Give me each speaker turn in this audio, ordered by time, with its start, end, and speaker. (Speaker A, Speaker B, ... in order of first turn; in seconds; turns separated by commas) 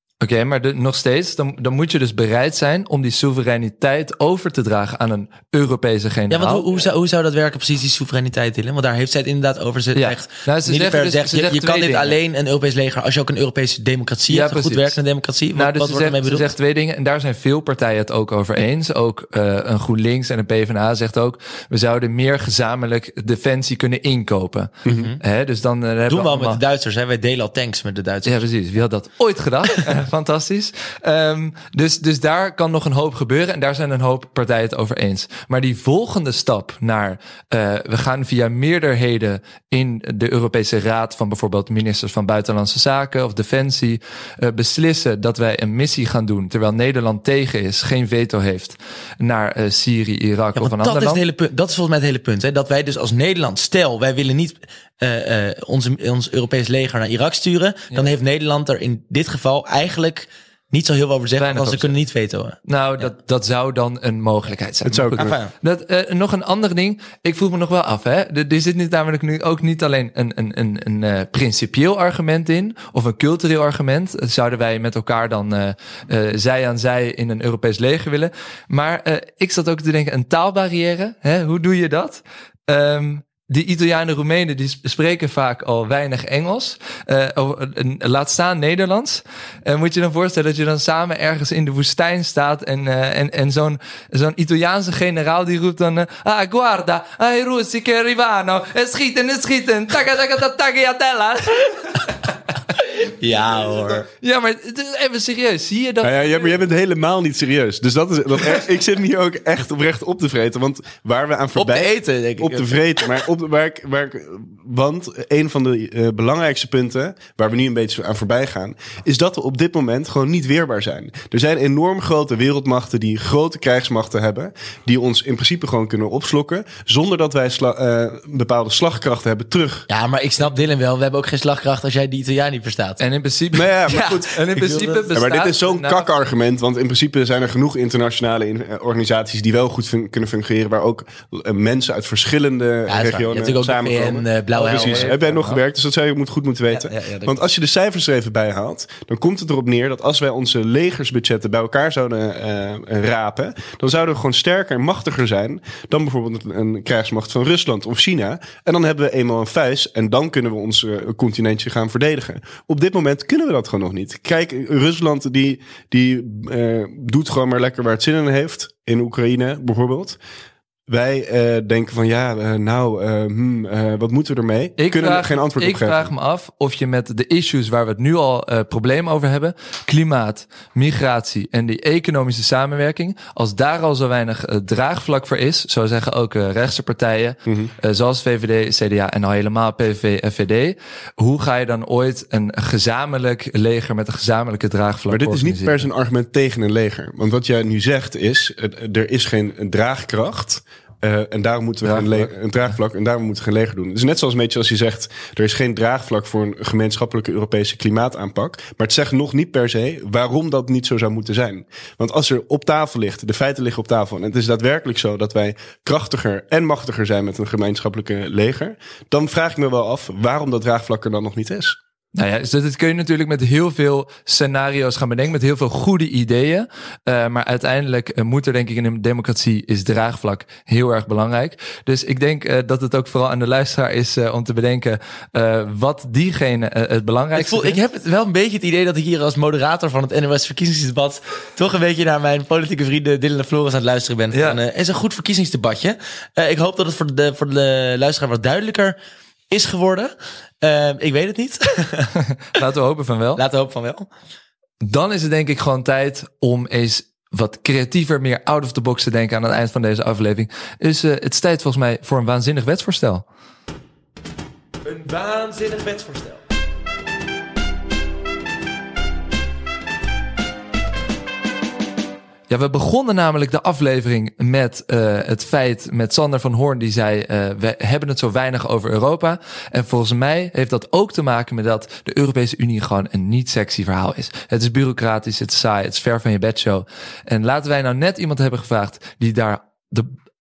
Speaker A: 0.2-6.7, Speaker B: 6.3-16.5, Speaker A: 9.9-12.2, Speaker A: 14.3-15.0, Speaker A: 15.5-26.6, Speaker B: 24.9-25.2, Speaker B: 26.1-28.4, Speaker A: 28.2-51.2, Speaker B: 50.5-63.1, Speaker A: 61.4-61.9, Speaker A: 62.7-102.2, Speaker C: 64.8-65.3, Speaker B: 65.2-65.5, Speaker B: 103.2-104.0, Speaker A: 104.2-106.6, Speaker C: 106.0-129.9, Speaker B: 111.5-113.0, Speaker B: 129.9-133.0, Speaker A: 133.0-136.1, Speaker C: 133.5-134.3, Speaker B: 134.5-135.0, Speaker C: 135.1-170.2, Speaker B: 142.9-145.1, Speaker A: 144.6-145.6, Speaker B: 146.7-147.3, Speaker C: 170.9-176.1, Speaker A: 174.8-195.9, Speaker C: 195.1-221.8, Speaker A: 201.8-202.3, Speaker A: 222.1-237.8, Speaker B: 237.3-249.0, Speaker A: 244.3-244.6, Speaker B: 249.5-252.1, Speaker A: 252.5-253.4, Speaker B: 253.3-254.1, Speaker A: 254.8-263.2, Speaker B: 264.8-266.4, Speaker A: 272.5-290.1